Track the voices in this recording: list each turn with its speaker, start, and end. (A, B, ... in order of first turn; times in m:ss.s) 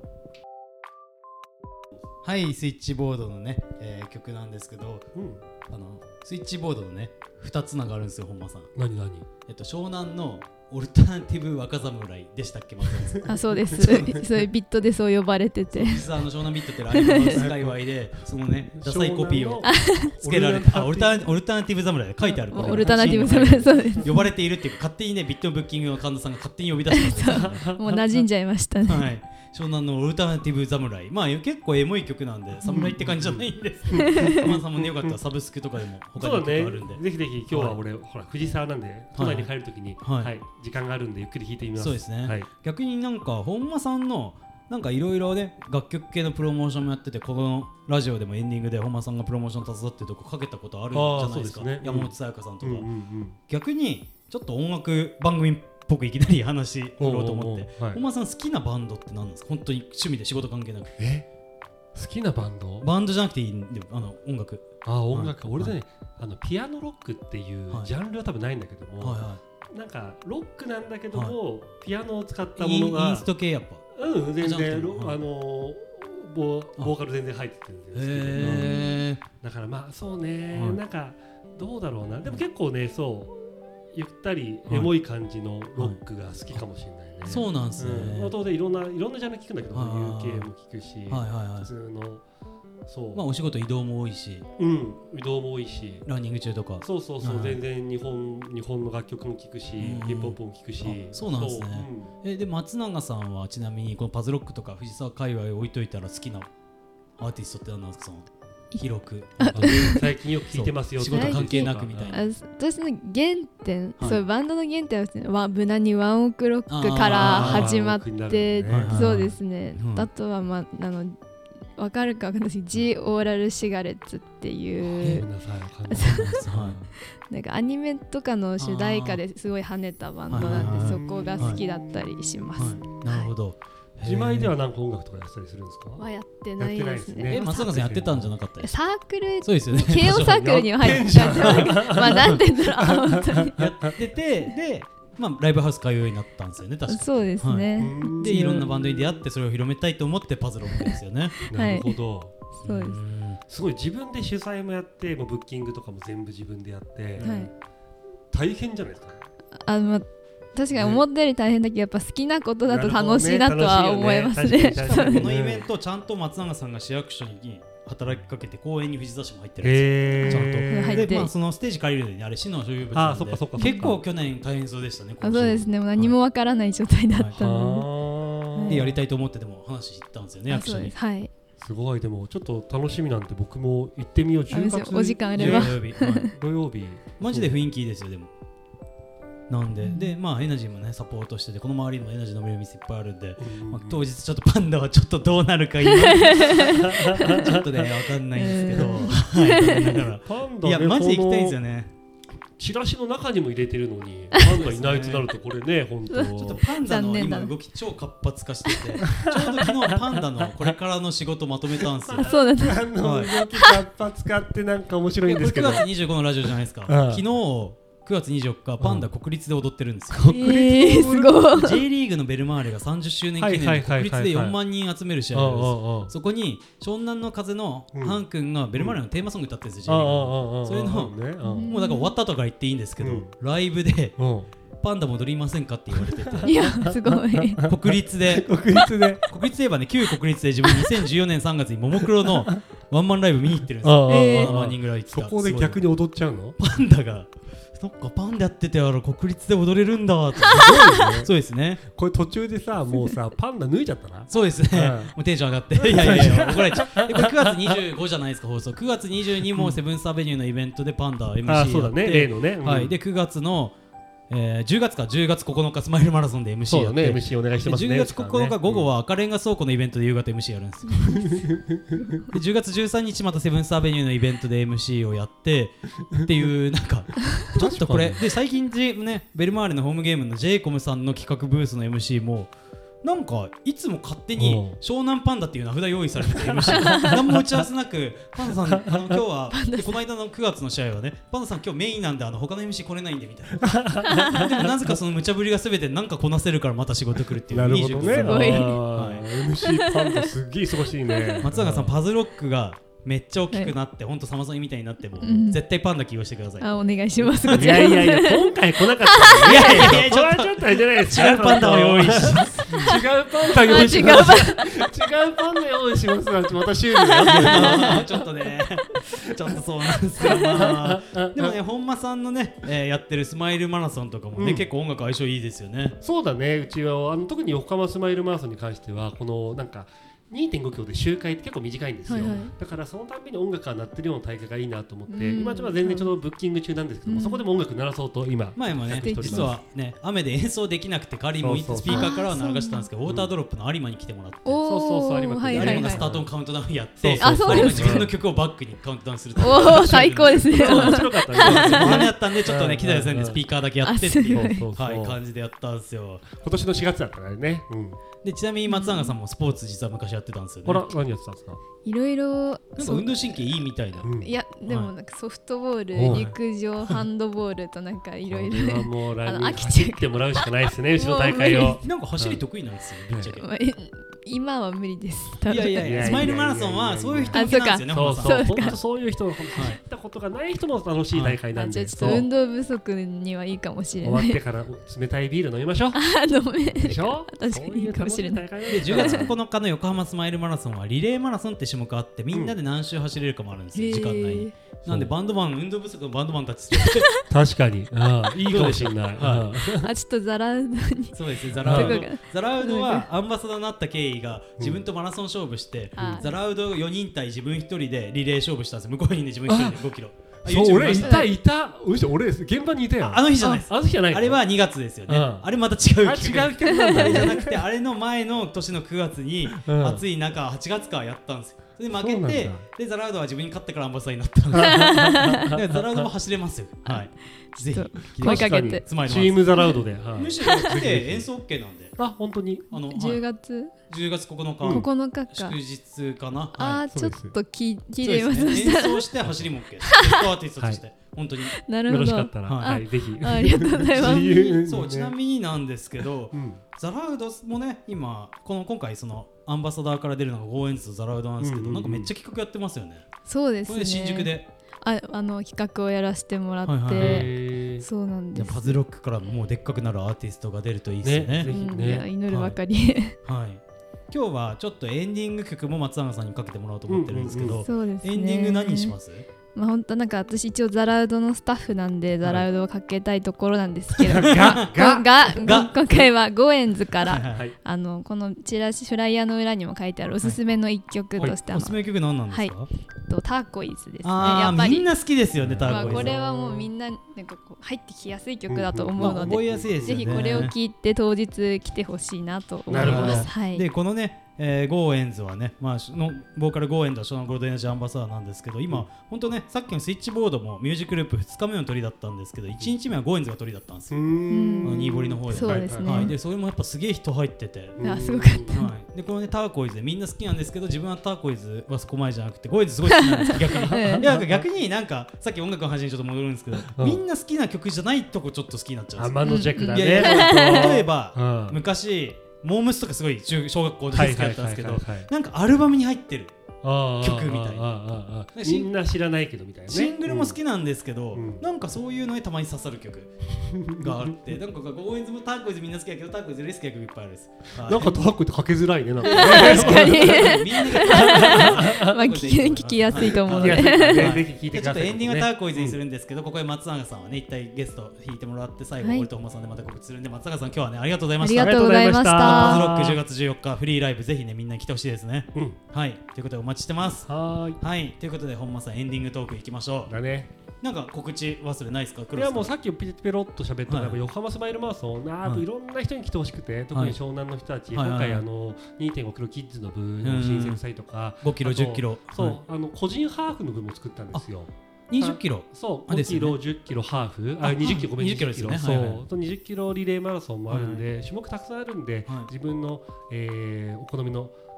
0:02.2-0:05.1 A
0:05.1-0:05.4 B
0:05.6-0:08.7 A
0:08.8-0:09.3 B
0:09.5-0:13.3 A
0:13.2-0:14.3 B
0:13.2-0:16.1 C
0:15.7-0:27.7 A
0:16.9-0:17.5 C
0:17.3-0:17.8 B
0:18.8-0:21.2 B
0:19.6-0:20.1 C
0:22.2-0:24.3 C
0:22.6-0:24.1 B
0:26.9-0:29.1 C
0:27.1-0:28.3 B
0:28.8-0:37.8 A
0:32.6-0:32.9 C
0:32.7-0:35.2 B
0:33.9-0:34.6 C
0:36.2-0:42.5 B
0:39.2-0:40.3 A
0:41.8-0:52.9 A
0:50.9-0:53.4 B
0:53.5-1:01.0 A
0:57.0-0:58.0 B
1:01.0-1:01.3 B
1:01.9-1:02.9 B
1:02.8-1:05.7 A
1:04.8-1:13.3 B
1:09.0-1:09.4 A
1:12.6-1:13.8 A
1:13.9-1:18.8 B
1:14.4-1:15.2 A
1:17.9-1:19.2 A
1:18.4-1:19.0 C
1:19.4-1:23.4 B
1:20.5-1:20.8 A
1:23.9-1:32.2 B
1:27.2-1:28.4 A
1:29.7-1:30.5 A
1:31.1-1:31.7 A
1:32.9-1:33.2 B
1:33.1-1:34.5 A
1:34.6-1:36.1 B
1:36.1-1:37.6 A
1:36.8-1:42.1 B
1:39.8-1:46.5 A
1:47.2-1:52.2 A
1:49.4-1:50.1 C
1:49.5-1:52.2 B
1:51.1-2:01.2 C
1:56.7-1:57.7 A
1:57.1-1:59.1 B
1:58.7-2:00.1 A
2:01.8-2:05.3 C
2:04.8-2:06.9 B
2:05.9-2:06.4 C
2:06.0-2:06.8 A
2:07.3-2:13.3 C
2:08.6-2:09.2 A
2:10.3-2:11.6 A
2:10.3-2:13.0 B
2:12.6-2:14.5 A
2:14.0-2:16.1 B
2:16.0-2:17.7 C
2:16.6-2:18.3 B
2:17.3-2:18.8 A
2:18.6-2:23.6 C
2:19.4-2:22.4 A
2:20.1-2:23.9 B
2:23.6-2:31.4 A
2:26.9-2:28.7 C
2:27.8-2:29.1 B
2:30.8-2:32.0 C
2:31.5-2:32.3 B
2:32.5-2:33.0 C
2:32.6-2:33.4 A
2:33.5-2:37.5 B
2:37.2-2:37.5 C
2:38.3-2:39.2 B
2:39.6-2:45.3 C
2:40.8-2:41.0 B
2:42.7-2:45.6 B
2:44.8-2:56.1 A
2:49.6-2:51.2 B
2:50.2-2:51.3 C
2:52.9-2:54.0 B
2:53.6-2:53.9 C
2:55.2-2:57.9 C
2:57.4-2:58.9 B
2:58.6-2:58.9 C
2:58.7-3:00.9 A
3:00.5-3:01.3 C
3:01.6-3:07.6 B
3:04.5-3:06.3 C
3:05.4-3:06.3 A
3:07.2-3:08.3 A
3:09.5-3:21.9 A
3:13.4-3:14.0 B
3:16.0-3:17.4 C
3:16.4-3:17.7 B
3:18.4-3:20.0 C
3:18.8-3:19.2 B
3:20.2-3:21.6 B
3:22.6-3:26.6 B
3:24.5-3:25.3 A
3:26.1-3:27.5 C
3:26.2-3:32.3 A
3:29.1-3:30.7 B
3:32.0-3:35.9 B
3:32.2-3:32.9 C
3:33.0-3:33.3 A
3:35.2-3:40.2 A
3:36.9-3:37.2 B
3:38.8-3:39.1 B
3:40.1-3:41.4 B
3:40.3-3:41.8 C
3:41.6-3:54.2 A
3:43.4-3:44.6 B
3:45.3-3:46.1 B
3:47.9-3:48.2 B
3:48.8-3:49.0 B
3:49.9-3:51.7 B
3:51.4-3:52.1 C
3:53.0-3:53.3 B
3:54.2-3:54.5 B
3:54.8-3:56.7 A
3:55.9-3:59.2 B
3:56.4-3:57.7 C
3:57.7-3:58.5 A
3:59.3-4:05.8 A
4:03.8-4:06.6 B
4:04.1-4:04.5 C
4:06.6-4:11.8 A
4:10.4-4:11.3 B
4:11.8-4:15.2 B
4:14.3-4:23.8 A
4:15.8-4:17.8 B
4:21.5-4:23.0 B
4:24.3-4:31.4 A
4:26.7-4:28.9 B
4:31.1-4:32.0 B
4:32.3-4:42.5 A
4:37.5-4:38.3 B
4:43.0-4:59.3 A
4:44.4-4:44.8 B
4:46.4-4:47.4 B
4:46.8-4:47.1 C
4:48.4-4:49.2 B
4:49.5-4:49.9 C
4:53.6-4:55.0 B
4:54.1-4:54.5 C
4:57.5-5:02.0 B
4:58.1-4:58.9 C
4:59.6-5:00.3 C
5:01.1-5:01.5 C
5:01.4-5:06.7 A
5:05.2-5:05.6 C
5:06.6-5:10.0 C
5:07.3-5:07.8 A
5:07.5-5:18.3 B
5:09.4-5:13.0 A
5:13.5-5:14.7 C
5:17.0-5:18.0 C
5:17.2-5:26.0 A
5:19.1-5:19.6 B
5:20.2-5:21.6 B
5:24.4-5:24.7 B
5:26.0-5:39.5 B
5:32.1-5:32.5 C
5:35.1-5:36.1 C
5:37.1-5:37.4 C
5:38.6-5:44.6 A
5:38.9-5:39.6 C
5:41.4-5:42.1 B
5:41.9-5:42.9 C
5:44.4-5:46.0 C
5:44.6-5:46.3 B
5:45.5-5:56.3 A
5:47.0-5:48.1 B
5:47.2-5:48.1 C
5:49.4-5:52.1 C
5:49.5-5:53.4 B
5:53.8-5:54.7 C
5:54.3-5:55.2 B
5:56.3-5:58.0 B
5:58.2-6:00.9 A
5:58.7-5:59.2 C
6:00.6-6:01.6 B
6:01.8-6:03.1 C
6:02.8-6:04.1 A
6:04.0-6:04.3 B
6:04.2-6:11.8 C
6:06.0-6:06.3 B
6:06.0-6:07.0 A
6:08.2-6:12.4 B
6:11.8-6:13.4 A
6:13.4-6:16.3 C
6:15.5-6:18.8 A
6:15.8-6:22.3 B
6:17.3-6:18.8 C
6:21.1-6:21.4 A
6:21.6-6:24.4 C
6:22.0-6:22.2 A
6:24.0-6:26.0 B
6:25.9-6:29.3 C
6:26.8-6:29.3 B
6:28.7-6:37.1 A
6:32.3-6:32.6 B
6:33.7-6:34.5 C
6:34.8-6:35.1 B
6:37.3-6:39.9 B
6:38.4-6:39.5 A
6:39.8-6:43.1 C
6:41.1-6:51.3 A
6:41.6-6:42.0 B
6:44.6-6:44.8 B
6:46.0-6:46.3 B
6:46.0-6:46.4 C
6:49.5-6:49.8 B
6:50.4-6:54.4 B
6:51.0-6:51.3 C
6:53.0-7:09.6 A
6:55.1-6:55.5 B
6:56.0-6:57.6 B
6:56.7-6:57.2 C
6:59.5-7:00.0 B
7:01.9-7:02.6 B
7:04.5-7:06.1 B
7:04.6-7:05.5 C
7:06.8-7:08.8 C
7:08.2-7:11.3 B
7:10.1-7:12.0 A
7:10.4-7:10.7 C
7:12.0-7:12.7 B
7:12.7-7:13.2 A
7:12.8-7:13.7 C
7:13.9-7:16.8 A
7:14.6-7:14.9 B
7:14.7-7:15.6 C
7:16.6-7:19.1 C
7:16.9-7:17.3 B
7:18.0-7:21.6 A
7:19.9-7:20.2 C
7:21.6-7:24.6 C
7:21.9-7:25.1 B
7:22.5-7:22.8 A
7:24.6-7:33.0 A
7:26.3-7:26.6 B
7:31.4-7:32.1 B
7:33.3-7:34.3 C
7:33.7-7:34.5 A
7:34.8-7:38.8 C
7:36.6-7:37.3 A
7:37.0-7:37.9 B
7:38.3-7:41.5 A
7:41.0-7:42.1 B
7:41.5-7:43.2 C
7:42.3-7:42.6 A
7:43.2-7:49.2 A
7:46.9-7:47.6 B
7:47.6-7:49.0 C
7:49.5-8:01.8 C
7:54.0-7:55.8 A
7:54.1-7:55.7 B
7:57.0-7:57.5 A
8:01.2-8:02.7 A
8:02.3-8:04.9 C
8:04.0-8:06.1 A
8:05.4-8:06.7 B
8:05.6-8:13.6 C
8:08.5-8:10.5 B
8:09.0-8:10.5 A
8:12.7-8:13.3 B
8:12.7-8:24.0 A
8:23.9-8:26.1 B
8:24.3-8:26.1 C
8:24.6-8:27.8 A
8:27.8-8:28.6 B
8:27.8-8:28.7 C
8:28.5-8:46.3 A
8:33.1-8:34.1 C
8:33.5-8:34.4 B
8:36.7-8:37.0 B
8:39.0-8:41.6 B
8:39.2-8:40.8 C
8:43.9-8:45.1 B
8:46.6-8:50.4 B
8:47.0-8:47.7 A
8:48.4-8:48.7 A
8:49.7-8:58.0 A
8:51.1-8:51.4 B
8:53.4-8:54.1 B
8:57.6-9:02.0 B
8:59.0-9:11.6 A
8:59.1-9:04.2 C
9:02.9-9:05.8 B
9:08.8-9:09.1 C
9:11.2-9:13.0 C
9:11.4-9:12.9 B
9:12.2-9:19.9 A
9:17.1-9:17.6 B
9:19.9-9:20.3 B
9:20.6-9:22.5 A
9:22.2-9:44.4 B
9:23.7-9:24.0 A
9:27.7-9:28.2 A
9:30.0-9:30.6 A
9:31.2-9:32.4 A
9:34.9-9:36.4 A
9:37.4-9:39.0 A
9:40.5-9:40.9 A